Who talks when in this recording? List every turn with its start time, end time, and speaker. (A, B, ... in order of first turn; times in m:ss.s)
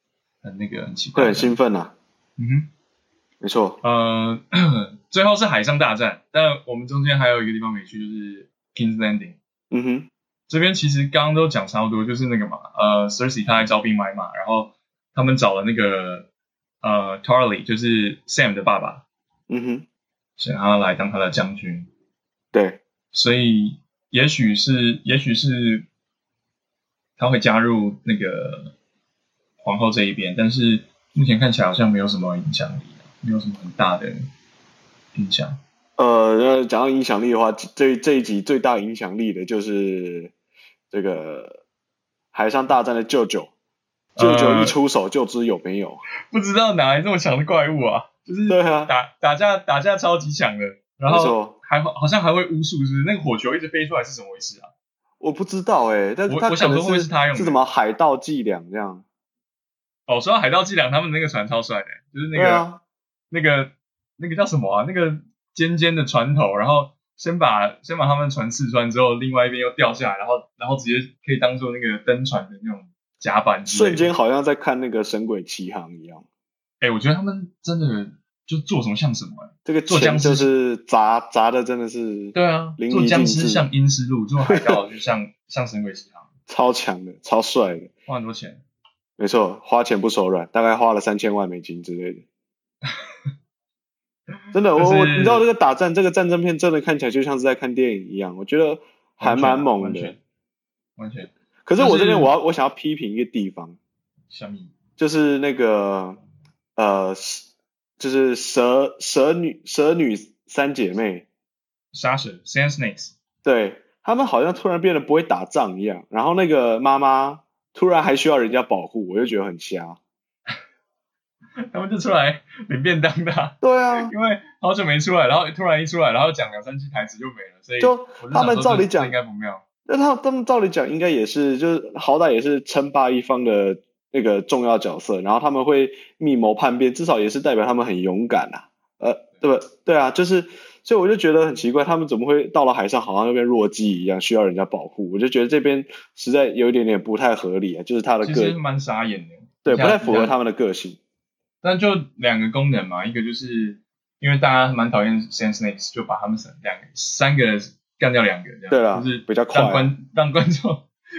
0:00.4-0:01.6 A
0:01.1-0:01.9 B
0:02.4-0:02.7 A
0:03.4-0:03.8 B
0:03.8-0:09.4 A
0:09.7-0:10.1 B
0:10.5-0:16.3 A
0:16.8-0:19.0 A
0:19.5-0:19.8 B
0:20.4-0:21.9 A
0:22.5-0:22.8 B
0:23.1-0:25.9 A
0:27.2-0:28.7 A
0:29.6-0:34.3 A
0:35.1-0:35.6 A
0:36.0-0:40.3 B
0:40.9-0:41.6 B
0:42.3-0:43.5 B
0:44.2-0:44.7 A
0:44.2-0:46.0 B
0:46.3-0:54.7 A
0:48.5-0:48.9 B
0:51.0-0:51.5 B
0:55.2-0:59.0 B
0:56.3-0:57.6 A
1:00.1-1:02.6 A
1:02.3-1:02.8 B
1:03.3-1:14.1 A
1:13.7-1:16.2 B
1:16.8-1:20.4 A
1:19.6-1:23.7 B
1:22.3-1:26.3 A
1:24.4-1:24.7 B
1:26.5-1:27.9 B
1:28.1-1:28.6 A
1:29.2-1:32.2 B
1:32.8-1:33.3 A
1:34.5-1:40.2 B
1:34.8-1:35.4 A
1:39.2-1:40.2 A
1:41.0-1:42.3 A
1:41.6-1:43.8 B
1:44.3-1:44.7 A
1:45.0-1:46.2 B
1:46.8-1:47.5 B
1:48.0-1:51.2 B
1:51.9-1:53.1 A
1:53.4-2:00.0 B
2:01.7-2:09.6 A
2:03.6-2:04.1 B
2:07.8-2:09.1 B
2:09.8-2:28.6 B
2:28.2-2:30.3 A
2:29.6-2:31.0 B
2:31.6-2:40.9 A
2:38.7-2:39.9 B